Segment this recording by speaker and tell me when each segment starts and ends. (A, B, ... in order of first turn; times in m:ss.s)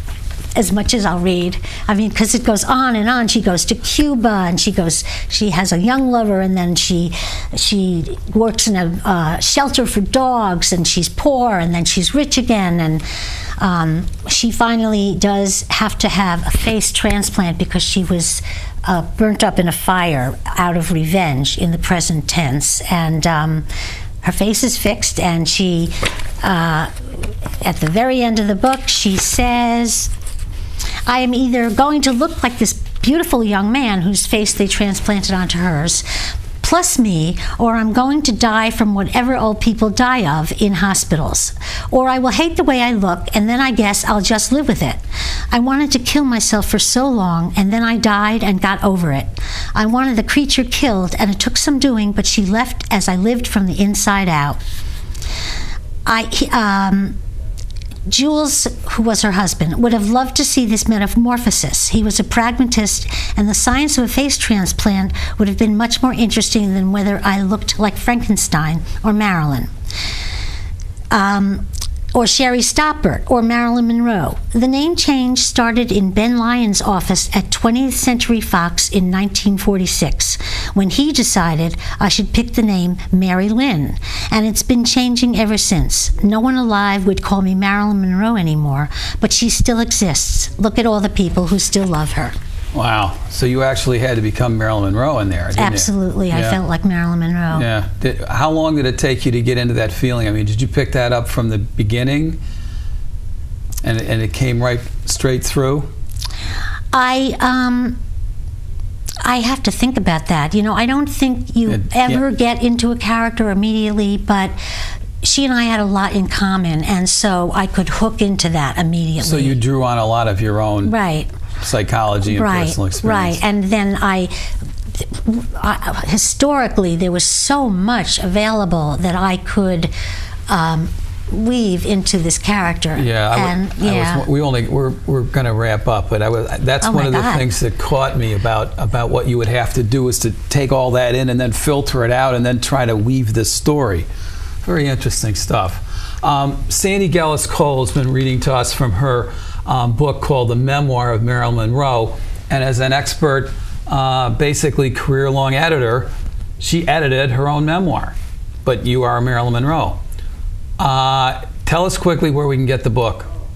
0:00.6-0:13.0 A
0:13.6-0:23.7 A
0:24.2-0:30.1 A
0:31.1-0:54.6 A
0:56.1-0:57.2 A
0:58.1-1:09.7 A
1:11.1-1:32.4 A
1:32.7-1:36.6 B
1:35.6-1:37.7 A
1:37.5-1:42.4 B
1:43.8-1:45.9 B
1:46.9-1:48.0 A
1:49.2-1:54.6 A
1:51.7-1:52.2 B
1:55.2-1:59.6 A
1:59.2-2:00.9 B
2:00.8-2:01.3 A
2:01.6-2:03.4 B
2:02.3-2:04.3 A
2:05.0-2:09.9 A
2:10.5-2:14.3 A
2:12.9-2:24.1 B
2:16.8-2:17.5 A
2:24.6-2:38.1 B
2:38.6-2:40.0 B
2:40.8-2:43.3 B